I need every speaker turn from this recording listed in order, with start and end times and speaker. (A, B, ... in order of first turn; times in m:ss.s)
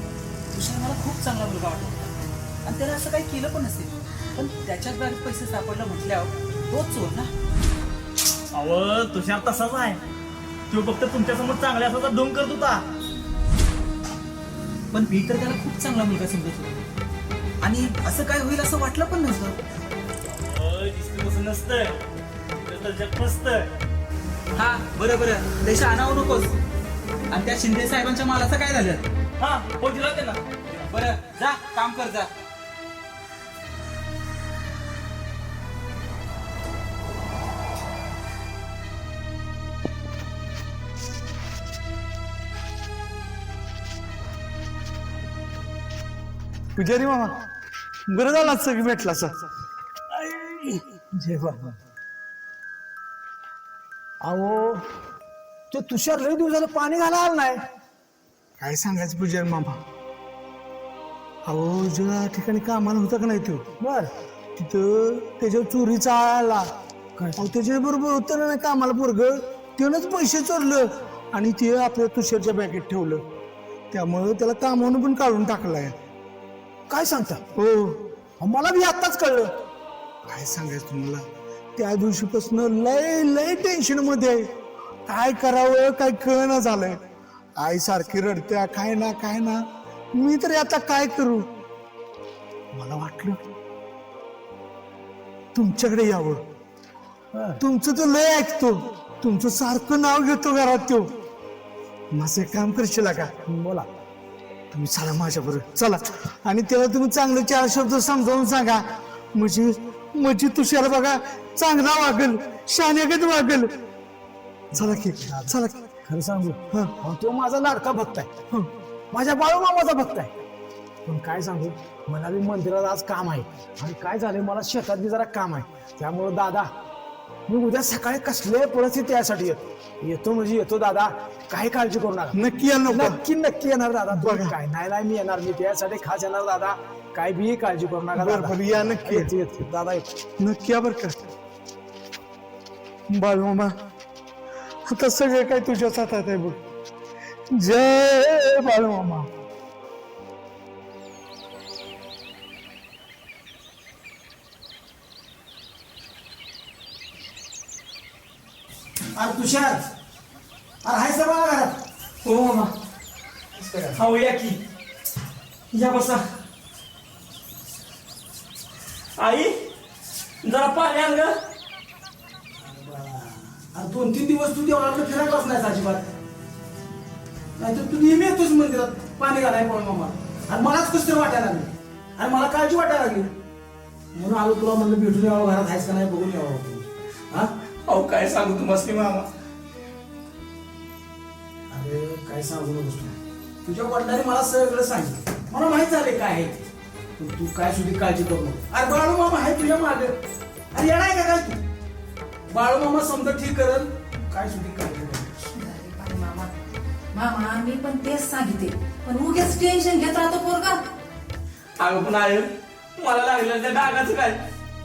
0:00.5-0:02.1 A
0:02.6-0:07.3 A
0:08.5-0:10.0 B
0:10.7-0:12.8 B
0:14.9-0:16.8 A
0:17.6-0:19.6 A
0:20.3-0:22.0 B
0:22.5-0:23.7 B
0:24.5-0:26.5 A
0:27.3-0:29.0 A
0:29.4-0:30.5 B
0:30.8-0:32.3 A
0:46.8-0:47.4 C
0:48.1-0:49.4 C
0:50.2-0:50.8 B
0:51.1-0:51.7 D
0:54.2-0:54.9 D
0:55.7-0:57.6 D
0:58.6-0:59.8 C
1:01.4-1:03.6 C
1:03.8-1:04.1 D
1:04.6-1:06.7 C
1:07.2-1:07.5 D
1:07.4-1:13.2 C
1:13.9-1:16.0 C
1:16.9-1:17.4 D
1:17.5-1:18.0 C
1:18.4-1:19.5 D
1:20.3-1:24.5 C
1:25.0-1:27.0 C
1:27.6-1:31.5 C
1:32.7-1:33.4 C
1:35.5-1:36.4 C
1:37.3-1:37.6 D
1:37.6-1:41.1 C
1:42.1-1:43.3 C
1:43.4-1:43.9 D
1:44.7-1:53.8 C
1:54.7-1:55.5 D
1:54.7-1:55.9 C
1:56.0-1:58.3 D
1:59.1-2:00.3 D
2:01.0-2:06.7 D
2:07.5-2:20.1 D
2:12.3-2:13.2 C
2:14.1-2:14.5 C
2:18.1-2:19.3 C
2:20.4-2:21.2 C
2:23.1-2:23.8 C
2:24.8-2:26.6 C
2:27.5-2:29.3 C
2:39.2-2:39.8 D
2:40.8-2:41.8 D
2:42.2-2:42.7 E
2:43.5-2:44.0 D
2:43.9-2:44.6 E
2:45.7-2:46.2 E
2:49.2-2:49.5 E
2:50.4-2:51.3 E
2:52.6-2:56.1 D
2:57.6-3:03.3 D
3:04.1-3:07.5 D
3:07.9-3:09.3 E
3:11.7-3:20.1 D
3:20.7-3:21.6 D
3:22.5-3:25.5 D
3:25.6-3:26.5 F
3:27.1-3:30.8 F
3:31.8-3:32.5 E
3:33.0-3:34.4 E